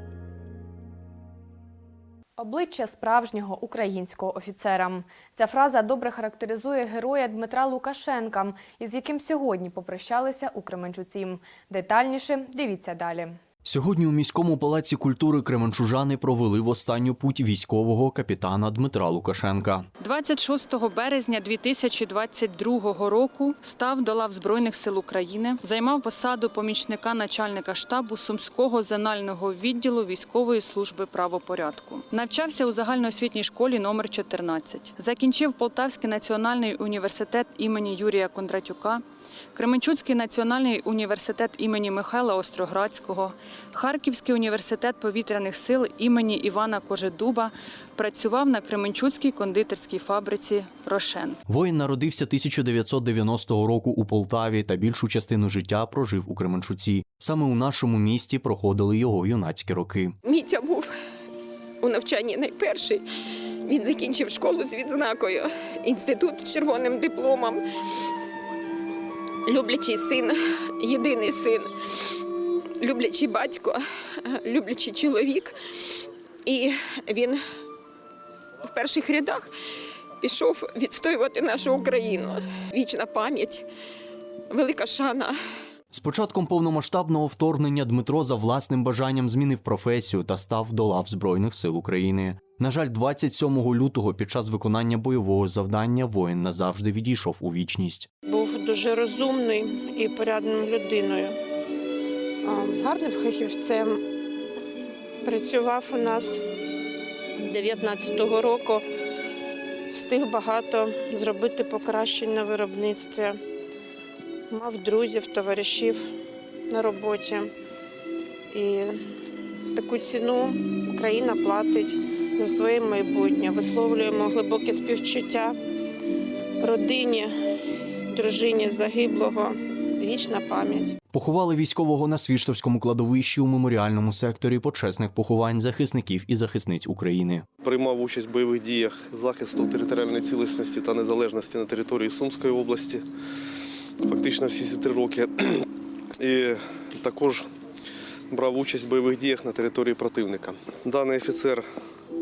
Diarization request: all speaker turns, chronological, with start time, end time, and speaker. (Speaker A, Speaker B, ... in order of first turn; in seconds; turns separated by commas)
Speaker A: 2.4-13.4, Speaker B: 13.6-19.9, Speaker C: 20.0-39.0, Speaker C: 39.5-51.4, Speaker B: 51.5-60.1, Speaker D: 60.2-60.9, Speaker D: 61.8-63.0, Speaker D: 63.7-67.6, Speaker D: 69.5-71.7, Speaker D: 72.8-75.6, Speaker D: 76.5-77.4, Speaker D: 78.7-79.5, Speaker D: 80.2-83.7, Speaker D: 84.5-85.4, Speaker B: 85.9-98.1, Speaker E: 98.3-101.3, Speaker E: 102.5-103.8, Speaker E: 105.3-106.3, Speaker E: 107.5-108.8, Speaker E: 109.9-113.3, Speaker E: 114.5-115.9, Speaker E: 116.7-117.5, Speaker E: 119.8-125.5, Speaker E: 126.6-127.3, Speaker E: 128.2-129.5, Speaker E: 130.0-130.9, Speaker B: 131.1-137.4, Speaker F: 137.6-143.1, Speaker F: 144.0-145.6, Speaker F: 146.2-147.5, Speaker F: 148.3-151.7